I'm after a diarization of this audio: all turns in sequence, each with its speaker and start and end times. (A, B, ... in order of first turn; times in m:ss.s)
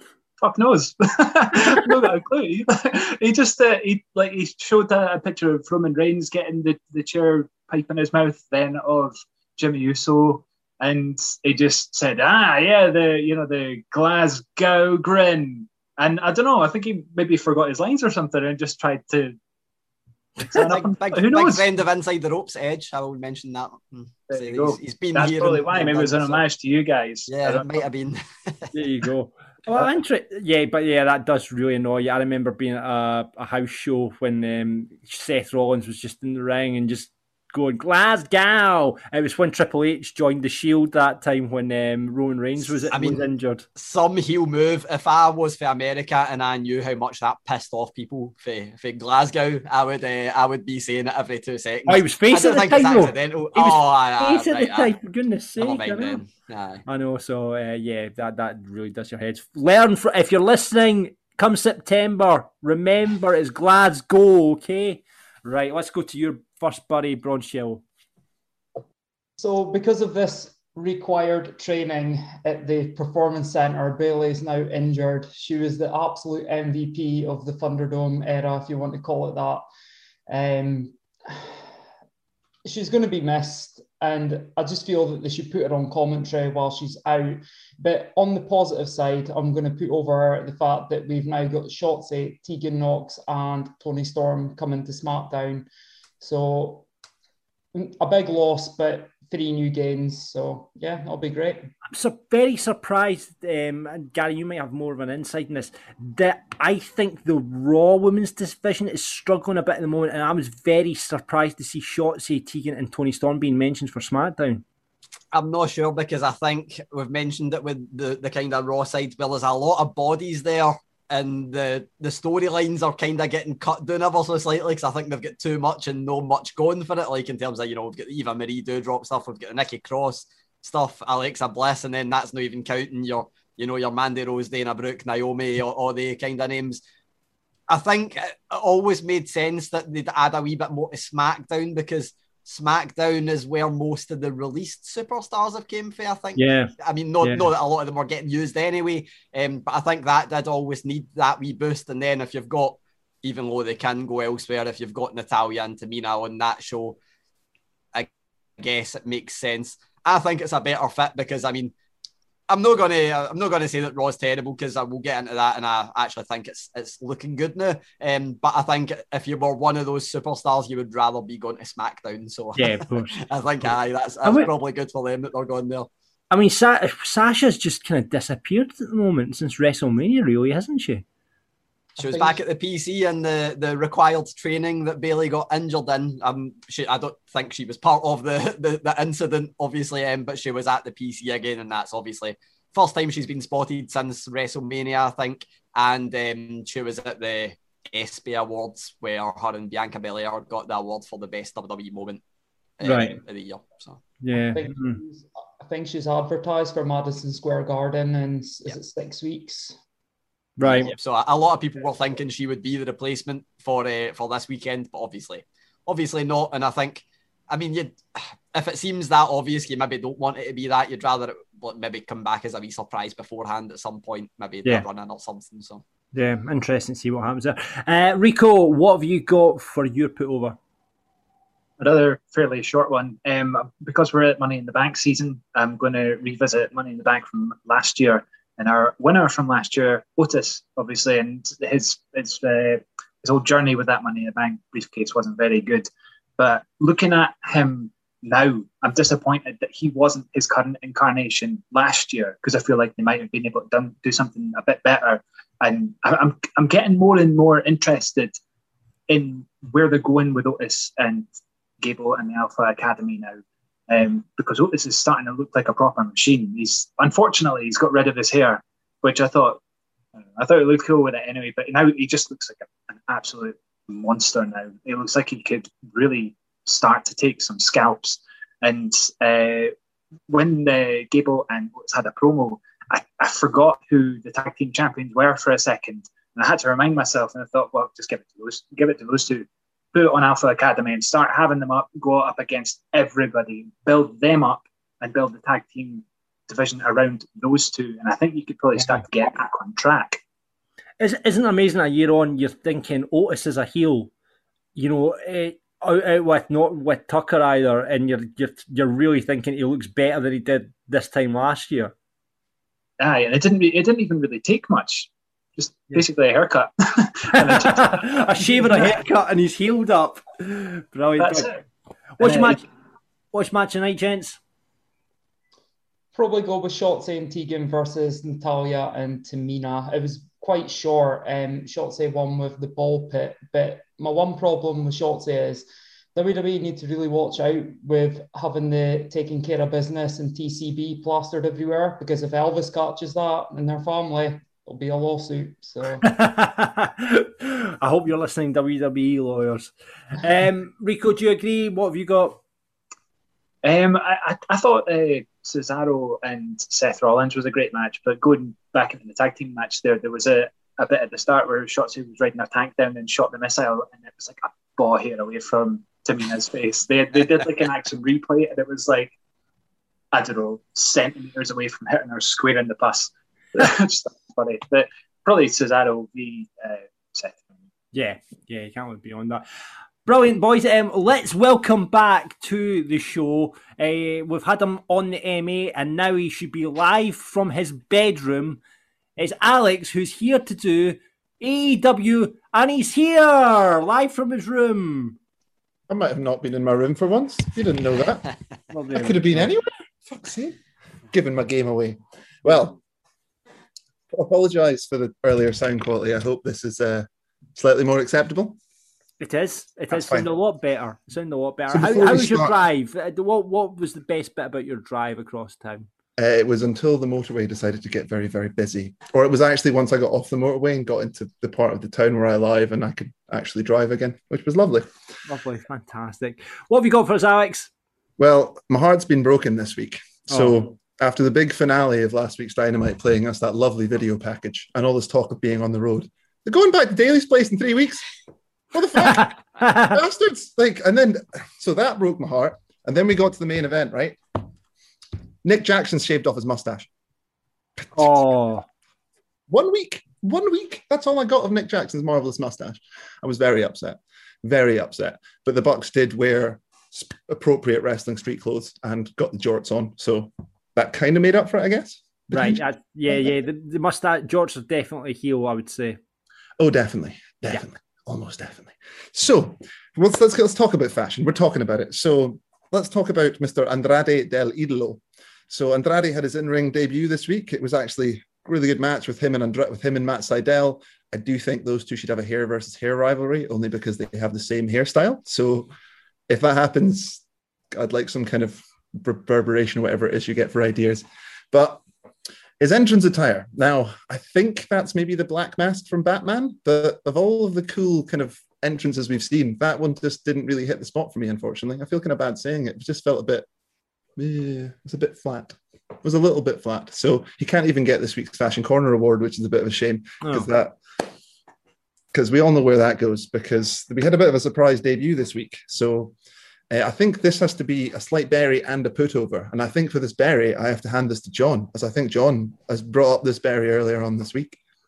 0:00.4-0:19.4 A
0:20.4-0:21.7 A
0:20.5-0:26.4 B
0:24.3-0:27.8 A
0:27.3-0:28.7 B
0:28.7-0:43.6 C
0:42.9-0:54.9 B
0:51.9-0:56.2 C
0:55.6-0:56.8 B
0:56.9-1:07.8 C
1:09.4-1:19.6 D
1:20.3-1:21.5 D
1:22.6-1:35.7 D
1:36.2-1:36.8 D
1:37.7-1:41.6 D
1:41.9-1:54.6 C
1:55.3-2:16.8 B
2:17.7-2:37.0 B
2:26.4-2:27.5 C
2:37.9-2:41.7 B
2:42.5-2:55.9 B
2:52.6-2:53.2 C
2:54.2-2:54.5 C
2:56.3-3:01.0 C
3:02.0-3:22.2 B
3:22.8-3:24.0 B
3:22.8-3:23.2 C
3:24.2-3:25.0 C
3:24.5-3:29.8 D
3:30.6-3:30.9 C
3:30.7-3:45.8 B
3:46.1-3:50.6 C
3:51.8-4:18.4 A
4:19.1-4:21.3 A
4:21.8-4:29.6 A
4:30.4-4:39.7 A
4:40.3-5:00.2 A
4:58.8-4:59.0 C
5:01.0-5:04.1 C
5:04.8-5:11.9 C
5:13.0-5:19.0 A
5:17.3-5:21.5 C
5:21.2-5:21.6 A
5:22.2-5:22.6 C
5:22.2-5:22.6 A
5:23.3-5:24.4 C
5:26.1-5:46.1 D
5:46.0-5:52.4 C
5:53.6-6:09.1 A
6:10.1-6:17.5 A
6:17.9-6:19.4 C
6:20.0-6:28.6 C
6:29.2-6:35.2 C
6:35.9-6:38.3 E
6:38.7-6:39.5 C
6:38.9-6:40.6 E
6:41.1-6:42.8 E
6:44.1-6:48.6 E
6:49.2-6:55.9 C
6:49.9-6:50.2 E
6:51.7-6:52.6 E
6:56.2-7:04.9 E
7:05.3-7:07.7 C
7:08.2-7:18.0 E
7:10.3-7:10.7 C
7:18.7-7:24.2 E
7:19.0-7:20.0 C
7:25.4-7:26.9 E
7:27.8-7:28.2 E
7:27.9-7:28.6 C
7:29.5-7:43.2 E
7:42.3-7:46.0 C
7:46.6-8:05.7 E
8:06.3-8:11.8 E
8:12.6-8:23.5 E
8:24.2-8:30.8 E
8:30.2-8:30.5 C
8:32.1-8:36.1 E
8:36.7-8:44.6 E